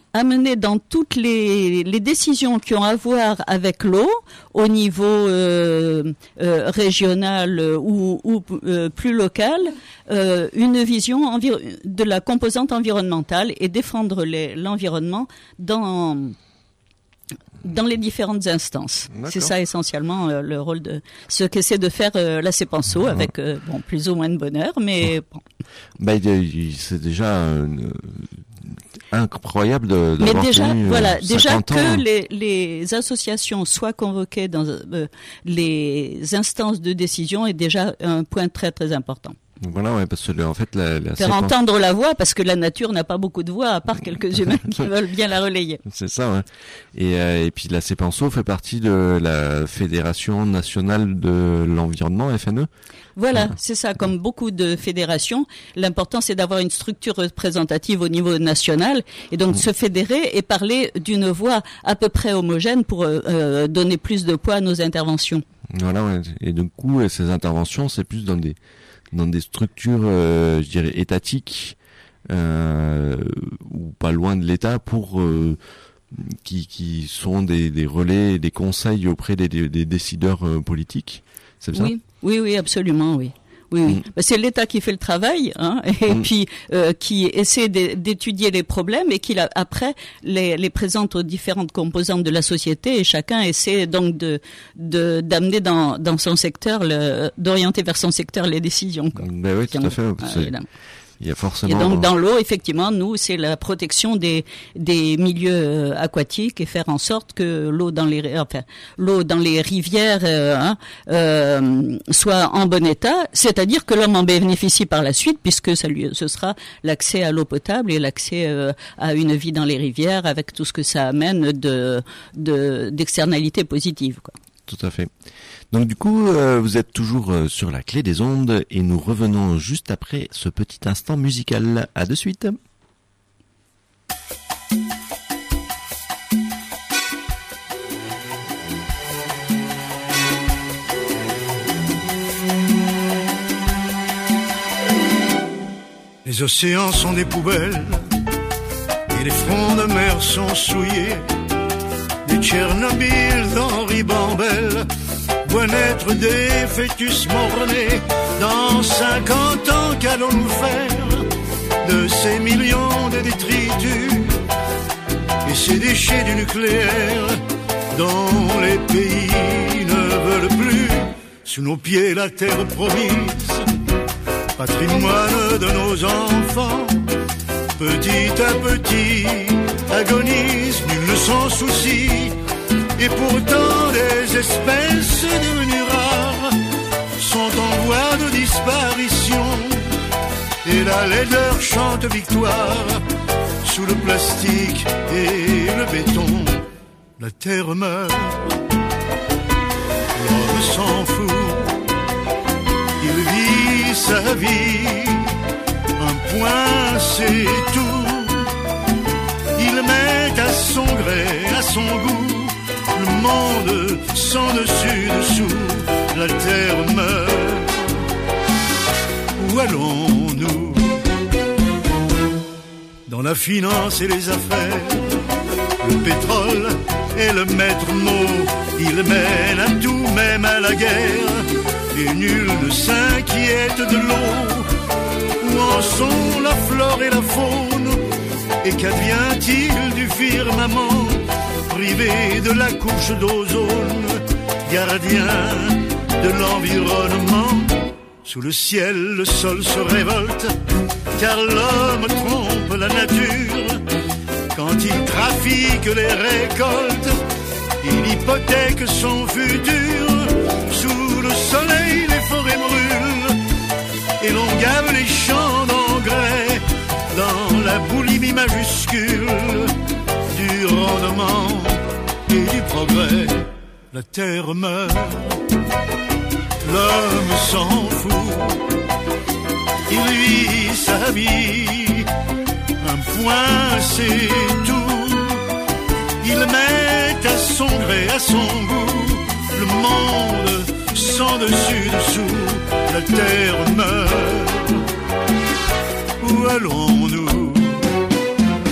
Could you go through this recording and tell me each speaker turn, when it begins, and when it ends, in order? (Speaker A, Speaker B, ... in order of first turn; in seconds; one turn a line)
Speaker A: 0.1-16.4
Speaker A: 17.6-25.4
Speaker B: 19.1-19.5
Speaker B: 26.0-28.3
Speaker B: 29.1-32.0
Speaker A: 30.2-39.4
Speaker B: 39.6-41.6
Speaker A: 41.2-45.8
Speaker B: 45.9-52.7
Speaker A: 53.2-65.4
Speaker B: 65.7-68.6
Speaker B: 69.1-71.8
Speaker B: 72.3-75.6
Speaker B: 76.1-81.9
Speaker A: 81.7-100.7
Speaker B: 99.2-100.5
Speaker B: 101.2-102.1
Speaker A: 101.7-124.3
Speaker B: 124.7-125.1
Speaker B: 125.7-132.6
Speaker C: 146.2-148.1
Speaker C: 149.1-151.2
Speaker C: 152.2-154.9
Speaker C: 155.4-161.3
Speaker C: 161.8-164.4
Speaker C: 165.4-167.4
Speaker C: 167.9-173.7
Speaker C: 174.6-177.1
Speaker C: 177.8-182.4
Speaker C: 183.0-186.6
Speaker C: 187.2-189.9
Speaker C: 190.6-193.0
Speaker C: 193.6-196.7
Speaker C: 197.2-198.6
Speaker C: 200.2-201.8
Speaker C: 203.0-205.3
Speaker C: 206.0-208.5
Speaker C: 209.6-218.0
Speaker C: 219.4-221.0
Speaker C: 223.1-225.2
Speaker C: 225.8-234.7
Speaker C: 235.4-238.0
Speaker C: 238.6-250.6
Speaker C: 251.2-253.8
Speaker C: 254.5-257.2
Speaker C: 257.8-263.4
Speaker C: 264.2-269.8
Speaker C: 270.3-275.4
Speaker C: 276.6-278.7
Speaker C: 279.9-282.1
Speaker C: 282.8-285.4
Speaker C: 286.2-294.8
Speaker C: 296.2-297.9